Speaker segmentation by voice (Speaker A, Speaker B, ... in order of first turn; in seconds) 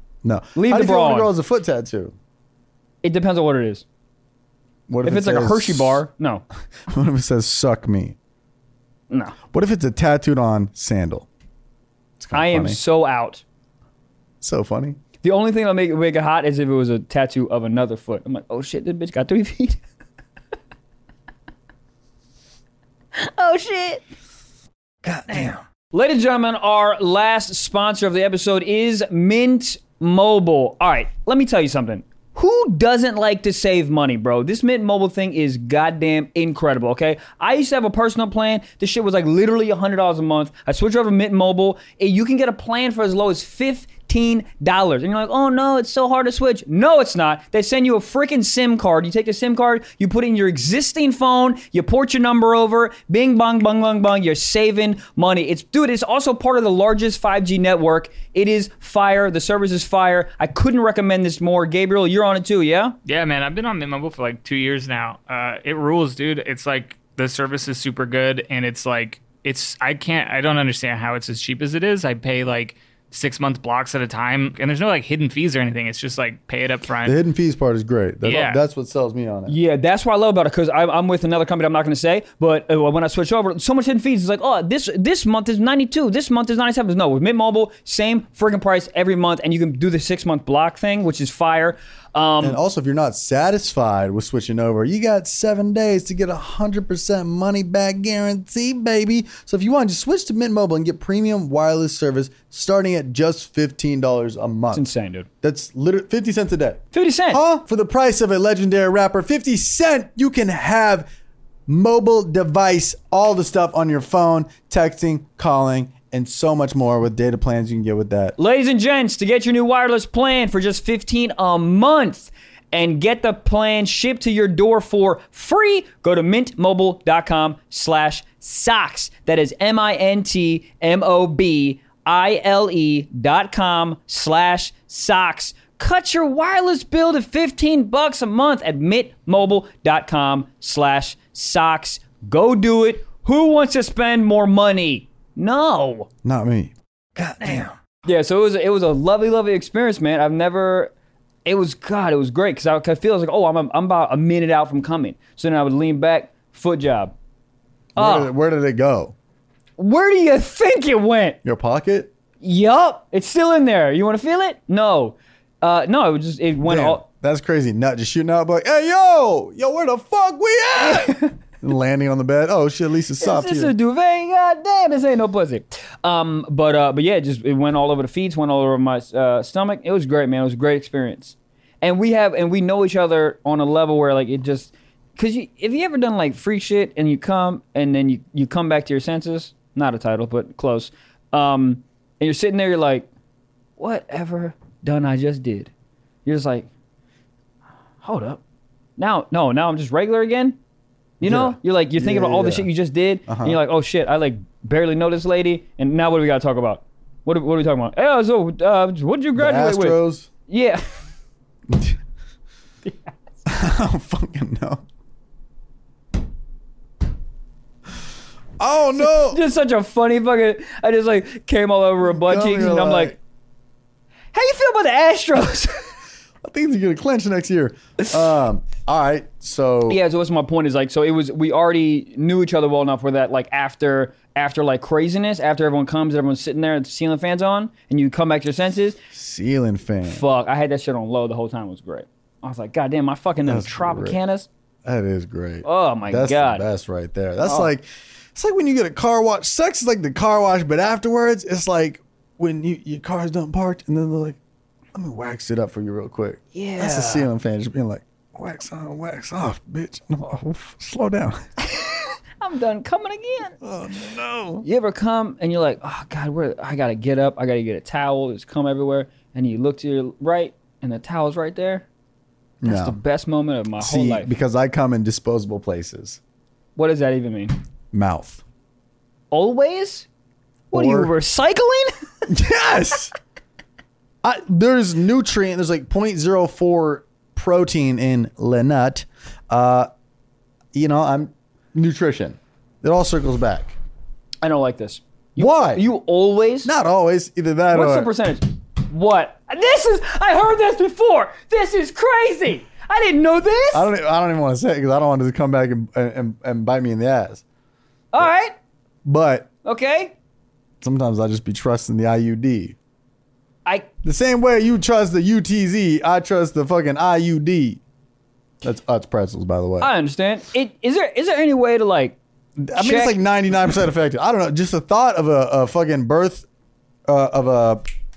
Speaker A: 0.2-2.1, 4.9-6.0, 6.9-8.2, 9.5-11.3, 12.2-12.8, 14.4-15.0, 25.0-25.5, 77.0-79.5, 92.4-104.8, 105.4-111.1, 111.7-118.3, 146.2-147.7, 157.9-159.1, 161.4-162.1, 166.6-173.7, 201.2-202.7, 203.3-203.6, 209.3-210.3, 211.7-211.9, 213.4-214.8, 218.6-219.4, 222.1-223.2, 226.4-230.0, 239.1-240.2, 243.4-244.2, 244.8-254.4, 254.9-261.4, 263.6-264.6, 272.6-273.0, 273.8-276.2, 277.9-278.4, 280.7-281.1, 282.3-283.1, 284.2-289.9, 290.7-293.7, 295.4-295.8, 296.6-298.1, 303.7-307.4, 309.0-309.5, 310.8-312.8, 314.0-317.8, 318.6-319.9, 322.6-326.4, 327.1-327.8
Speaker B: 0.5-1.3, 3.0-3.8, 5.0-6.4, 9.1-9.3, 12.3-13.4, 15.2-19.8, 23.1-24.0, 25.3-63.0, 79.5-92.6, 104.7-105.3, 106.9-107.4, 118.4-146.1, 147.4-150.9, 151.4-157.1, 158.0-158.3, 159.8-161.4, 162.4-167.0, 170.8-171.2, 173.2-193.1, 193.8-195.7, 196.2-196.7, 198.0-198.4, 199.0-200.6, 201.2-210.8, 218.9-223.1, 224.3-225.9, 229.9-239.0, 240.1-244.5, 245.6-246.7, 247.4-247.7, 256.5-257.3, 261.6-263.6, 264.6-271.8, 272.6-274.3, 276.8-277.5, 279.3-280.1, 280.7-281.9, 294.4-296.7, 297.7-303.9, 308.1-308.6, 309.6-310.1, 319.8-322.2, 322.8-323.2
Speaker C: 63.0-77.2, 78.2-78.6